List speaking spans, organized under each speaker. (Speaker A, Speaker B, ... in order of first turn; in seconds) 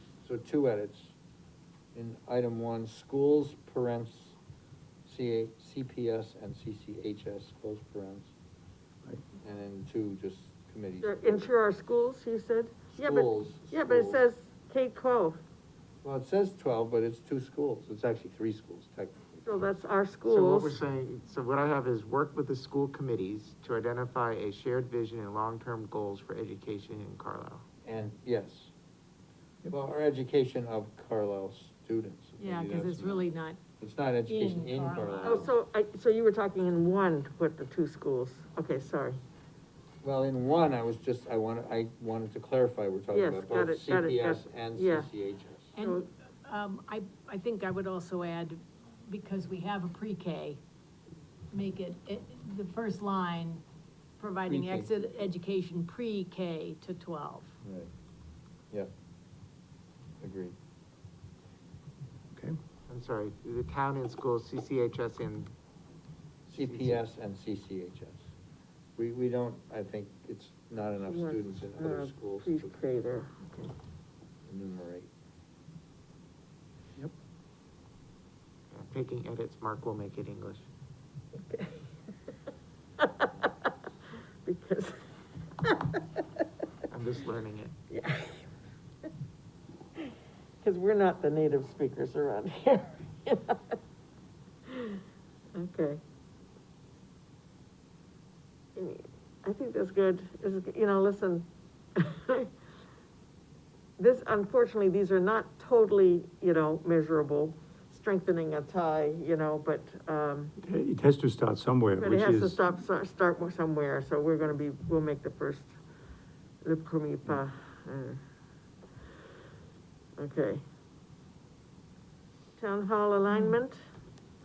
Speaker A: 0.2-1.1, 1.9-4.4, 5.0-8.3, 9.4-11.5, 12.9-14.2, 16.0-19.6, 27.8-28.7, 29.7-33.3, 33.8-35.5, 40.0-45.7, 54.5-54.9, 57.6-57.9, 60.2-60.5, 66.5-68.2, 69.0-72.7, 74.5-75.1
Speaker B: 11.0-15.4, 19.5-20.8, 35.2-39.2, 43.1-45.1, 45.8-46.1, 71.1-73.7, 81.3-81.9, 83.0-83.5, 84.4-85.0, 85.6-86.0, 87.9-88.5, 90.6-93.8, 94.7-95.0, 95.5-96.0, 98.8-102.5, 104.0-110.5, 112.0-115.8, 116.6-118.2, 120.2-120.6, 122.6-123.8
Speaker C: 20.3-27.6, 62.9-65.5, 66.6-67.0, 78.7-80.7, 86.9-87.7
Speaker D: 32.4-33.6, 34.3-35.5, 45.7-50.6, 51.5-53.6, 54.2-57.6, 123.3-123.6
Speaker E: 62.3-62.6, 110.6-112.6